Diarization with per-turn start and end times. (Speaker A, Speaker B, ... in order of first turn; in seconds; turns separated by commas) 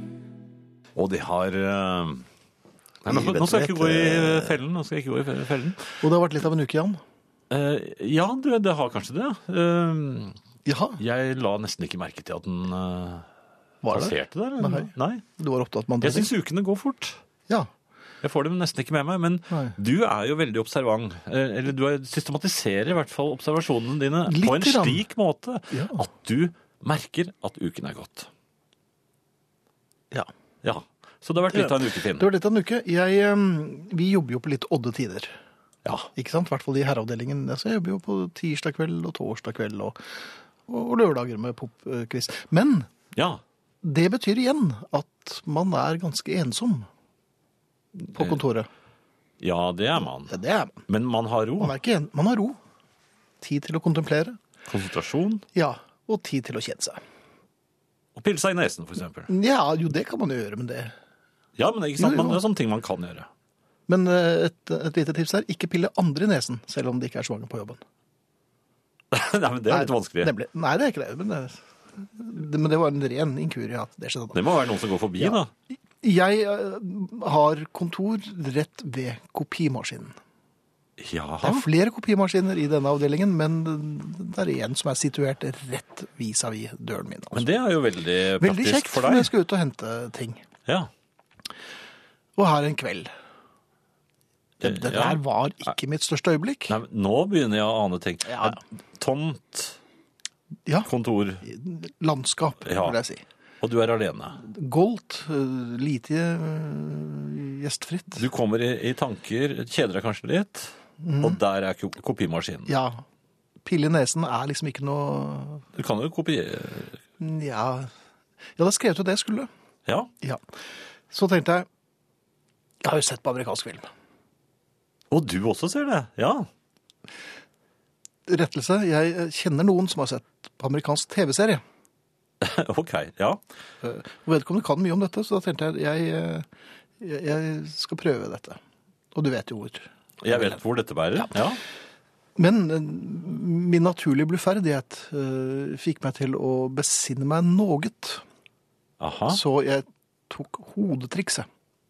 Speaker A: 0.9-2.2, Speaker A: 3.0-5.8, Speaker B: 3.1-4.6, Speaker B: 6.0-7.0, Speaker A: 7.5-10.3, Speaker B: 10.6-11.0, Speaker A: 11.0-13.3, Speaker B: 13.8-16.3, Speaker A: 13.9-15.2, Speaker A: 16.0-17.2, Speaker A: 18.2-28.3, Speaker B: 19.5-19.7, Speaker B: 24.2-25.0, Speaker B: 25.7-26.0, Speaker A: 30.6-32.3, Speaker B: 31.5-35.3, Speaker B: 36.1-40.0, Speaker B: 40.6-42.9, Speaker A: 43.1-43.4, Speaker B: 43.8-46.9, Speaker B: 48.0-48.7, Speaker A: 49.4-50.3, Speaker B: 50.2-50.8, Speaker A: 50.9-51.8, Speaker B: 51.6-52.6, Speaker B: 53.4-54.4, Speaker A: 54.7-55.4, Speaker B: 55.5-57.0, Speaker A: 58.1-59.3, Speaker B: 59.3-60.9, Speaker A: 61.6-63.3, Speaker B: 62.0-62.4, Speaker B: 63.9-67.8, Speaker A: 69.1-70.3, Speaker B: 69.7-74.5, Speaker A: 74.3-75.5, Speaker B: 76.0-80.1, Speaker A: 81.0-81.6, Speaker B: 81.4-87.6, Speaker A: 87.3-89.3, Speaker B: 88.4-90.4, Speaker B: 92.3-93.1, Speaker A: 94.6-95.2, Speaker B: 94.6-96.8, Speaker A: 96.7-99.8, Speaker B: 98.2-98.6, Speaker A: 100.8-101.4, Speaker B: 101.4-103.2, Speaker A: 102.7-102.9, Speaker A: 103.6-104.4, Speaker B: 104.4-108.2, Speaker A: 108.2-112.7, Speaker B: 111.0-111.4, Speaker B: 112.7-113.0, Speaker B: 113.6-115.7, Speaker A: 115.7-117.0, Speaker B: 117.2-117.9, Speaker B: 118.5-119.5, Speaker B: 121.1-121.7, Speaker B: 122.8-123.9, Speaker A: 125.1-126.5, Speaker B: 128.3-131.6, Speaker A: 132.4-133.4, Speaker B: 133.8-136.5, Speaker B: 137.0-138.6, Speaker B: 139.1-140.6, Speaker A: 140.2-141.6, Speaker B: 141.1-141.4, Speaker B: 142.3-148.2, Speaker A: 149.0-149.4, Speaker B: 149.3-151.5